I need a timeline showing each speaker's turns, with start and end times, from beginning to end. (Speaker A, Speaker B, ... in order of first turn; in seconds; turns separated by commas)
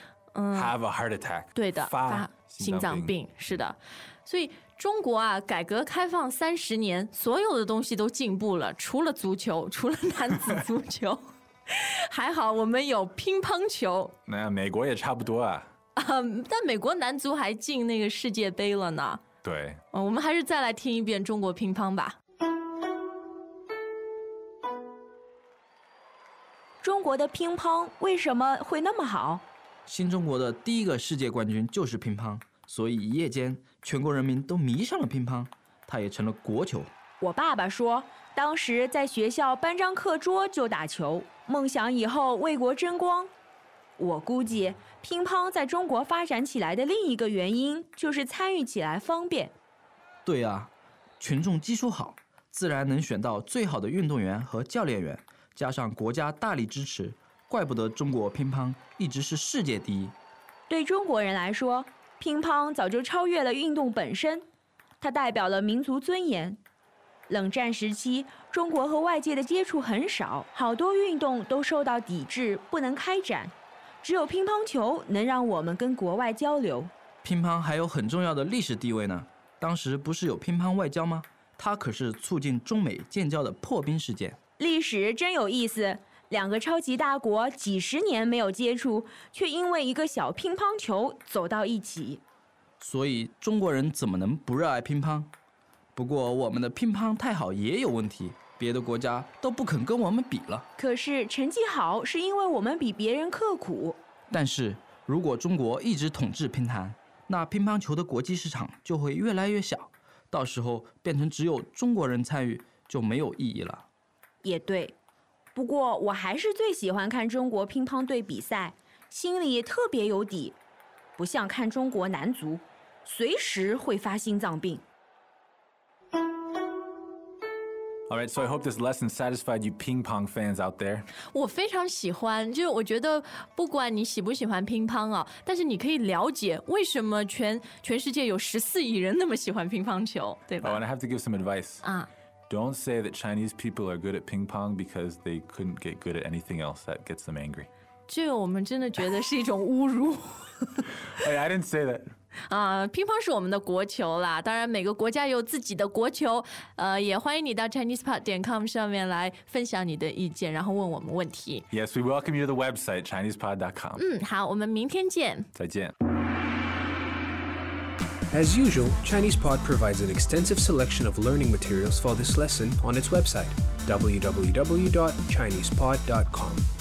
Speaker A: 0.3-0.8, Speaker B: 0.5-3.6, Speaker A: 1.6-14.1, Speaker B: 14.3-15.7, Speaker A: 16.0-19.2, Speaker B: 19.4-19.8, Speaker A: 19.9-22.2, Speaker C: 26.8-29.4, Speaker D: 29.9-36.9, Speaker C: 37.2-43.3, Speaker C: 44.0-49.5, Speaker D: 50.2-60.2, Speaker C: 60.7-64.5, Speaker C: 65.0-66.6, Speaker C: 67.3-76.9, Speaker D: 77.2-84.4, Speaker C: 84.6-92.2, Speaker D: 92.8-95.3, Speaker D: 96.0-100.7, Speaker C: 100.8-104.0, Speaker D: 104.3-113.9, Speaker C: 114.4-115.0, Speaker C: 115.5-120.6, Speaker C: 121.2-124.8, Speaker B: 128.1-131.1, Speaker A: 131.3-140.8, Speaker B: 140.6-141.8, Speaker A: 141.8-142.1, Speaker B: 142.5-147.7, Speaker A: 148.1-150.8, Speaker B: 151.1-152.1, Speaker A: 152.5-161.7, Speaker B: 161.7-164.0, Speaker A: 164.0-165.5, Speaker B: 165.6-165.9, Speaker E: 168.3-176.7